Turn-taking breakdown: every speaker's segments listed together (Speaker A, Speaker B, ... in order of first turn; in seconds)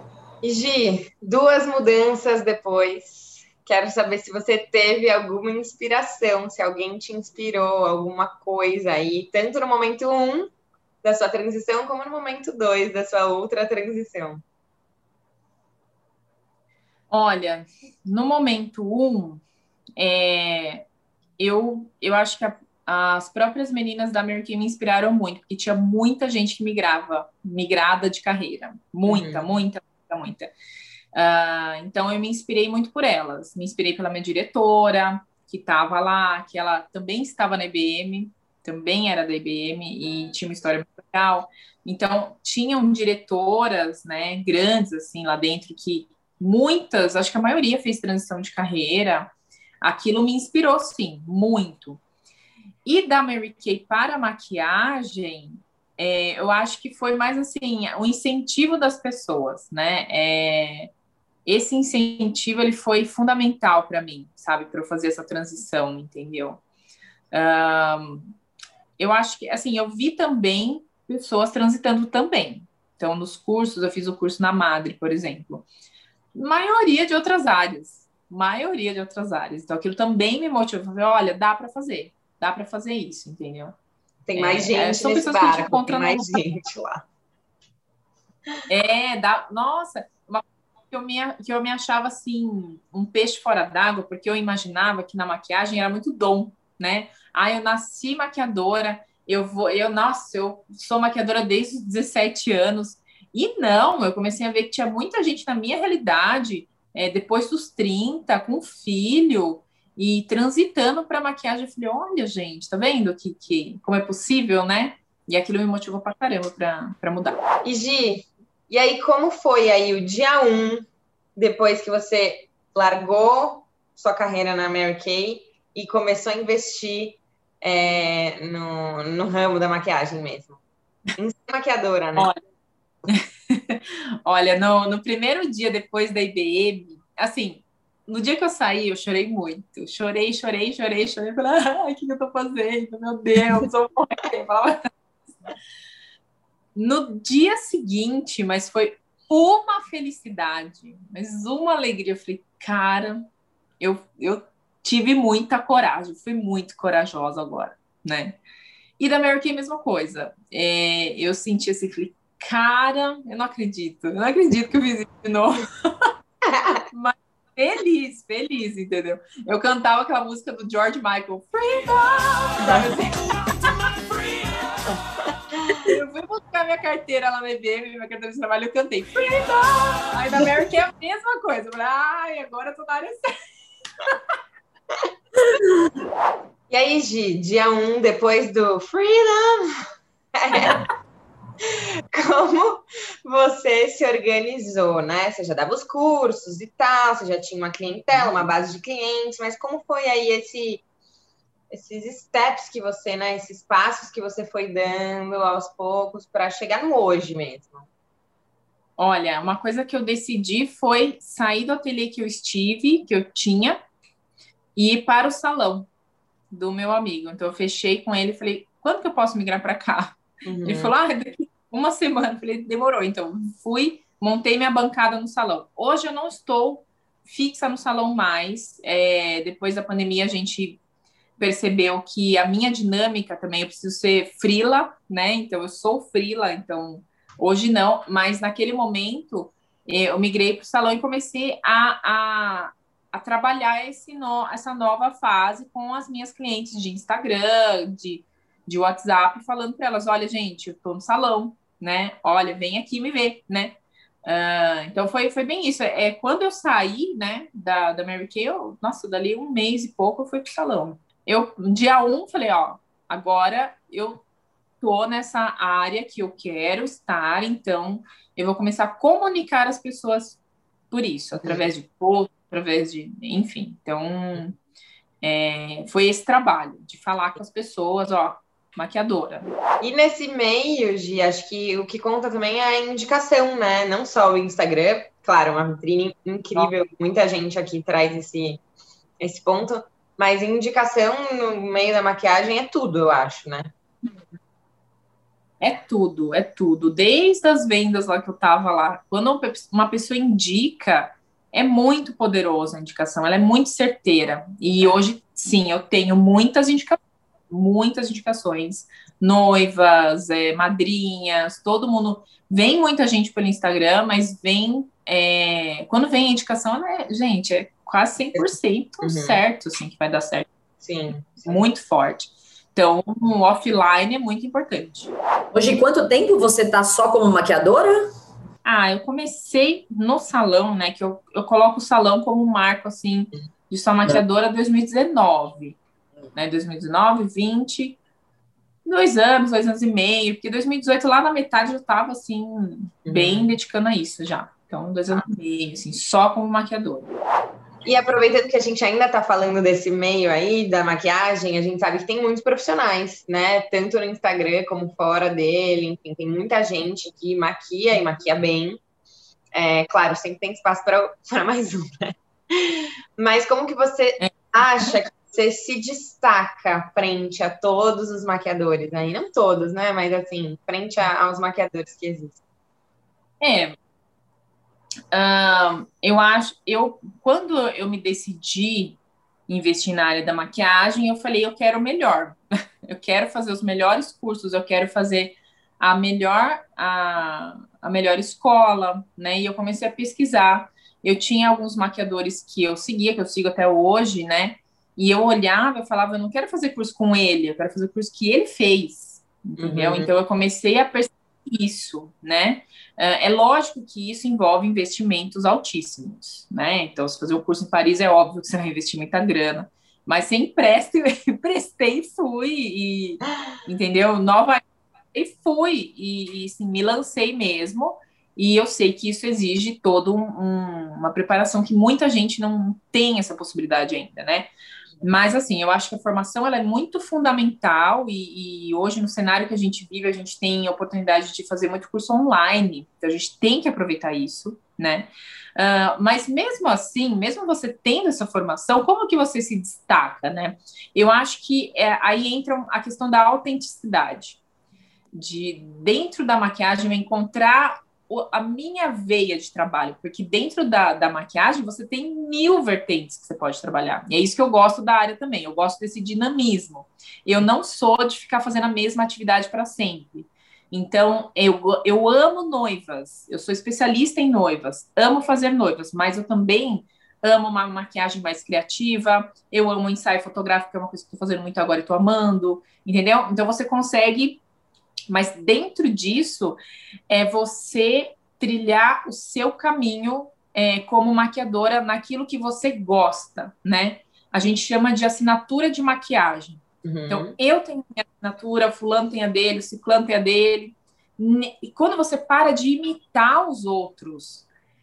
Speaker A: 0.4-10.5, 11.0-14.4, 29.1-29.4, 84.3-87.0, 117.6-130.6, 131.2-132.3, 166.5-166.8, 186.7-189.7, 190.3-190.8, 191.6-200.8, 201.7-207.9, 220.4-220.9, 279.8-288.6, 289.2-293.7, 319.0-319.4, 320.8-321.5, 343.1-343.5, 347.8-358.8, 359.5-372.4, 399.6-400.1, 486.8-487.3
Speaker B: 17.1-19.4, 20.0-20.8, 21.4-30.5, 31.1-52.0, 52.8-60.9, 61.5-66.6, 67.3-68.3, 69.0-75.7, 76.3-83.8, 84.3-86.4, 88.7-117.4, 133.1-144.9, 146.8-153.3, 153.8-158.4, 159.0-165.9, 166.9-174.5, 175.7-183.3, 209.0-213.8, 214.8-215.9, 216.5-230.8, 231.4-264.2, 264.8-274.6, 275.2-279.5, 295.6-307.0, 307.5-320.5, 321.4-325.1, 328.6-335.8, 336.3-338.0, 338.8-347.1, 373.4-373.8, 375.1-424.5, 425.0-444.4, 445.1-474.4, 475.1-476.6, 477.1-494.4
Speaker C: 325.5-328.0